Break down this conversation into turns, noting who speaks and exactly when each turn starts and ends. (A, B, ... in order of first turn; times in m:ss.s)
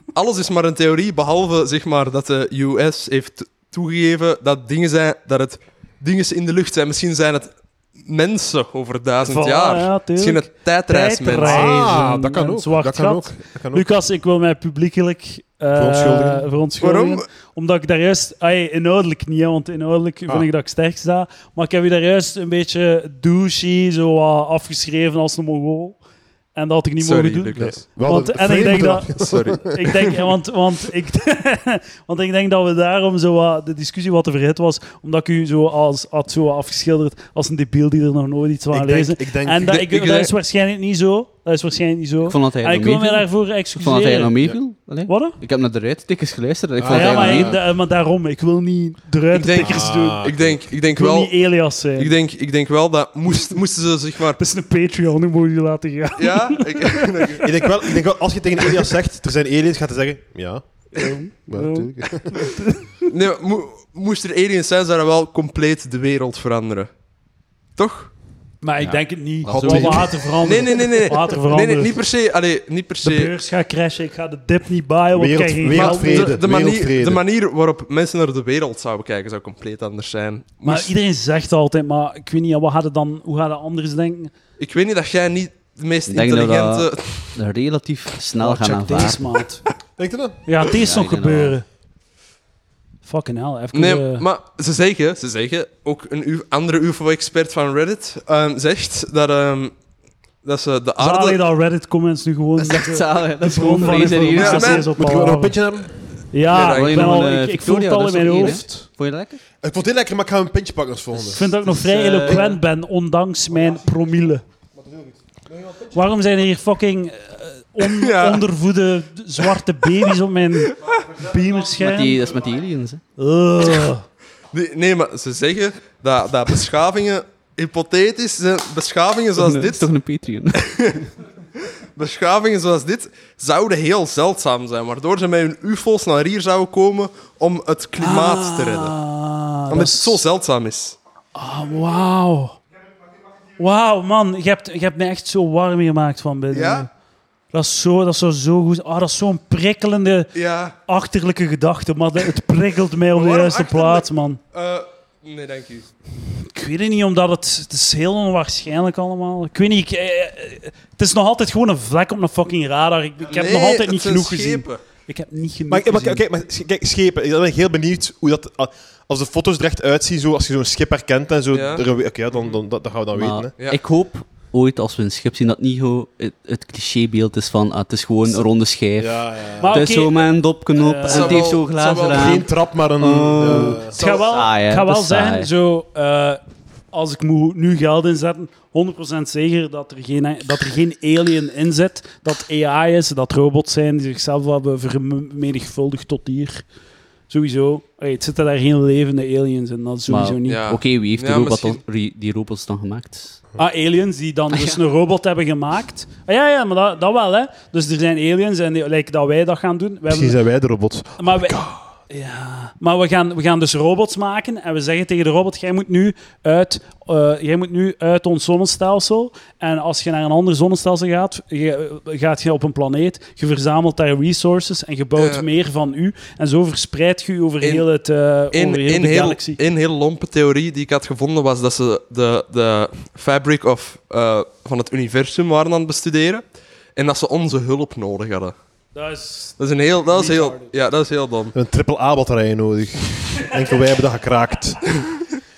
0:00.1-0:07.5 A
0:08.0-0:11.7 A
0:09.2-0:26.0 B
0:11.4-0:13.9 C
0:15.8-0:16.5 C
0:16.8-0:17.2 A
0:26.6-0:44.4 B
0:27.0-0:27.8 A
0:27.6-0:29.8 C
0:29.2-0:30.2 A
0:38.7-0:39.8 C
0:39.7-0:40.3 A
0:42.3-0:47.6 D
0:45.0-0:45.4 B
0:46.8-0:47.6 C
0:46.9-0:50.3 B
0:49.3-0:51.4 A
0:49.6-0:50.6 C
0:50.9-0:52.2 B
0:52.0-0:54.4 A
0:54.4-0:57.7 B
0:56.2-0:57.6 A
0:57.4-1:01.0 C
1:00.9-1:03.0 B
1:01.5-1:02.4 C
1:03.1-1:06.9 A
1:07.8-1:08.1 A
1:08.6-1:12.0 B
1:08.8-1:10.1 D
1:09.4-1:10.3 C
1:10.4-1:13.3 A
1:13.0-1:16.4 B
1:15.1-1:17.2 C
1:15.7-1:20.9 A
1:20.6-1:24.3 B
1:24.6-1:27.4 A
1:26.1-1:29.2 D
1:28.4-1:29.6 B
1:30.0-1:30.4 C
1:30.5-1:31.6 B
1:30.7-1:31.6 D
1:33.0-1:34.2 B
1:33.7-1:39.8 A
1:40.4-1:41.4 A
1:41.0-1:45.6 B
1:42.6-1:44.9 D
1:44.3-1:44.9 A
1:44.9-1:45.9 C
1:46.3-1:48.7 B
1:46.5-1:47.2 A
1:46.6-1:49.4 D
1:48.4-1:48.7 C
1:49.6-1:51.5 C
1:51.1-1:52.6 D
1:51.3-1:54.4 B
1:54.8-1:56.0 C
1:55.9-2:02.2 B
1:57.8-1:58.4 A
1:59.4-2:01.1 A
2:01.8-2:03.0 D
2:03.2-2:04.0 B
2:04.5-2:09.9 A
2:09.4-2:11.0 D
2:10.5-2:11.1 A
2:11.6-2:19.0 A
2:18.0-2:20.2 B
2:19.7-2:21.0 A
2:21.4-2:22.6 B
2:23.6-2:26.9 B
2:26.5-2:26.9 A
2:27.5-2:30.3 B
2:30.4-2:30.8 A
2:30.9-2:34.4 B
2:33.1-2:35.9 A
2:36.4-2:46.2 B
2:43.2-2:44.8 A
2:45.7-2:53.5 C
2:51.5-2:51.8 A
2:53.1-3:02.5 D
2:59.0-2:59.9 C
2:59.6-3:01.5 B
3:01.1-3:02.5 A
3:02.1-3:04.0 C
3:03.0-3:05.5 D
3:03.6-3:06.4 B
3:06.9-3:16.6 B
3:17.3-3:20.6 B
3:20.1-3:23.4 D
3:20.5-3:21.8 A
3:23.6-3:30.4 B
3:24.5-3:24.8 D
3:30.1-3:31.9 C
3:31.2-3:49.6 B
3:45.2-3:45.4 A
3:48.5-3:56.4 A
3:57.0-3:58.5 A
3:58.9-4:00.7 B
3:59.6-4:01.5 A
4:01.5-4:05.0 C